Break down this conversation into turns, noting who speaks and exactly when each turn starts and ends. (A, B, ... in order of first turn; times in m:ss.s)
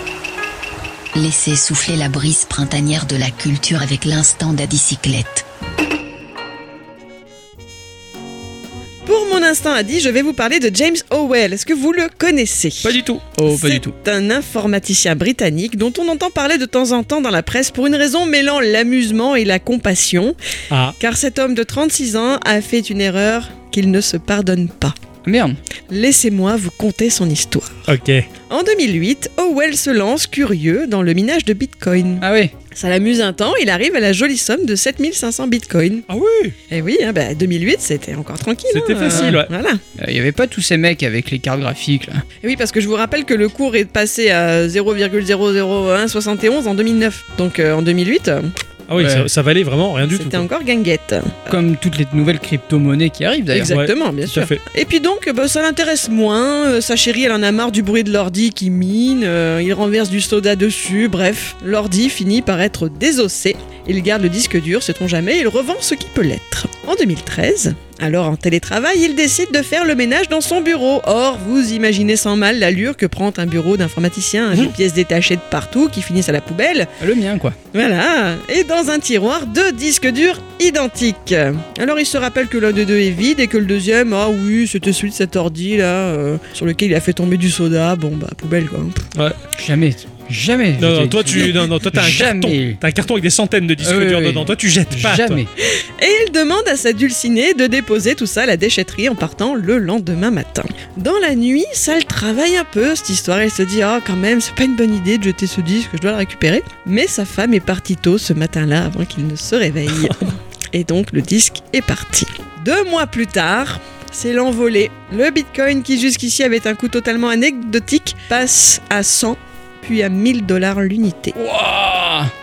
0:01.1-0:05.4 A
0:09.0-0:12.9 B
0:12.8-0:13.2 C
0:13.2-0:13.9 D
0:13.4-0:20.3 B
0:20.7-0:21.0 C
0:21.0-0:24.9 B
0:25.2-0:25.6 D
0:25.9-0:27.9 B
0:27.9-0:28.3 C
0:28.5-0:36.0 B
0:32.2-0:32.5 D
0:36.1-0:36.6 C
0:36.7-0:39.8 B
0:38.7-0:39.5 C
0:39.0-0:39.4 D
0:40.0-0:42.2 D
0:42.4-0:48.5 B
0:48.9-0:50.4 C
0:49.0-0:49.3 D
0:50.0-0:51.5 B
0:51.5-0:53.7 D
0:53.5-1:16.9 B
0:53.6-0:54.6 C
1:17.0-1:17.6 D
1:17.7-1:29.0 B
1:29.5-1:32.8 D
1:30.8-1:35.4 C
1:33.8-1:35.5 D
1:35.6-2:01.3 B
1:49.9-1:50.2 C
2:01.3-2:02.3 D